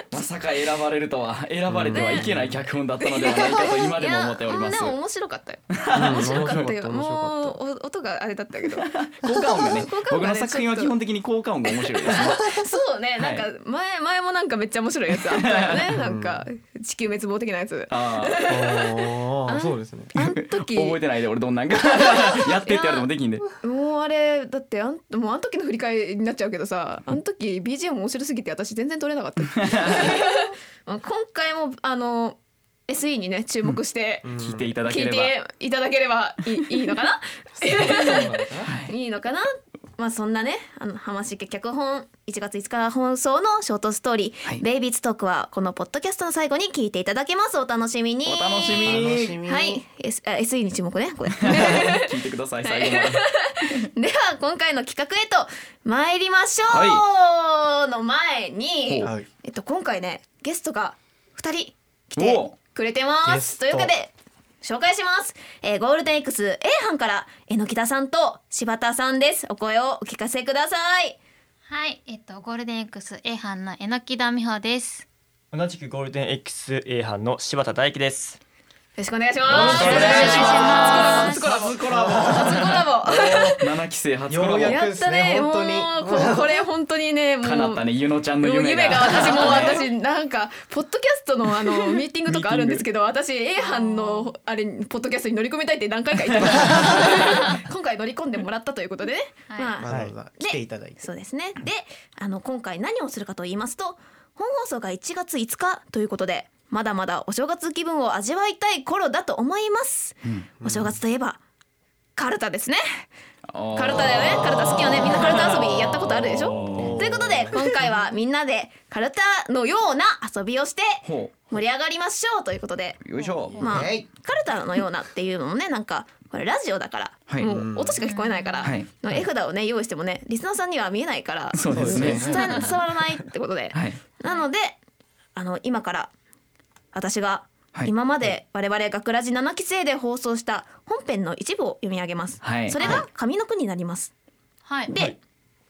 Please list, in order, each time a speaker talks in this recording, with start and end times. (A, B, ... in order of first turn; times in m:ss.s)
0:00.1-0:05.0 A
0:01.7-0:02.5 B
0:01.9-0:02.3 C
0:03.0-0:10.9 C
0:05.7-0:06.7 A
0:05.9-0:07.6 B
0:08.8-0:12.5 A
0:11.9-0:21.0 C
0:12.0-0:12.7 B
0:13.2-0:13.4 A
0:15.2-0:16.0 A
0:15.9-0:16.4 B
0:17.9-0:18.4 A
0:18.5-0:20.1 B
0:20.2-0:23.5 A
0:21.8-0:23.0 C
0:23.6-0:34.3 C
0:29.6-0:30.1 A
0:34.2-0:34.7 B
0:34.4-0:35.3 A
0:34.8-0:52.1 C
0:37.6-0:38.7 B
0:38.6-0:38.9 A
0:48.2-0:49.4 A
0:48.7-0:49.8 B
0:51.4-0:53.2 A
0:52.6-1:11.2 C
0:56.7-0:57.0 A
1:02.2-1:02.5 A
1:03.2-1:03.9 B
1:11.7-1:15.0 D
1:15.5-1:18.4 E
1:19.0-1:23.6 C
1:19.4-1:24.8 A
1:19.5-1:23.5 B
1:19.6-1:21.5 D
1:24.3-1:26.6 B
1:24.6-1:27.9 C
1:27.4-1:29.8 A
1:28.4-1:51.4 C
1:32.2-1:32.8 A
1:33.6-1:34.3 D
1:36.4-1:37.0 B
1:39.5-1:39.8 D
1:39.8-1:41.1 B
1:39.9-1:40.1 E
1:50.6-1:51.0 B
1:52.2-1:53.1 C
1:53.5-1:57.0 A
1:53.7-2:03.0 C
1:56.6-1:57.8 B
2:01.0-2:01.5 A
2:03.0-2:03.6 A
2:03.5-2:14.8 C
2:03.6-2:04.1 B
2:07.4-2:08.0 B
2:08.0-2:08.7 D
2:11.5-2:12.5 A
2:11.7-2:12.8 B
2:12.1-2:12.7 D
2:13.7-2:14.0 A
2:15.3-2:16.1 C
2:16.9-2:24.1 C
2:22.4-2:22.8 A
2:24.6-2:24.9 D
2:24.9-2:25.2 C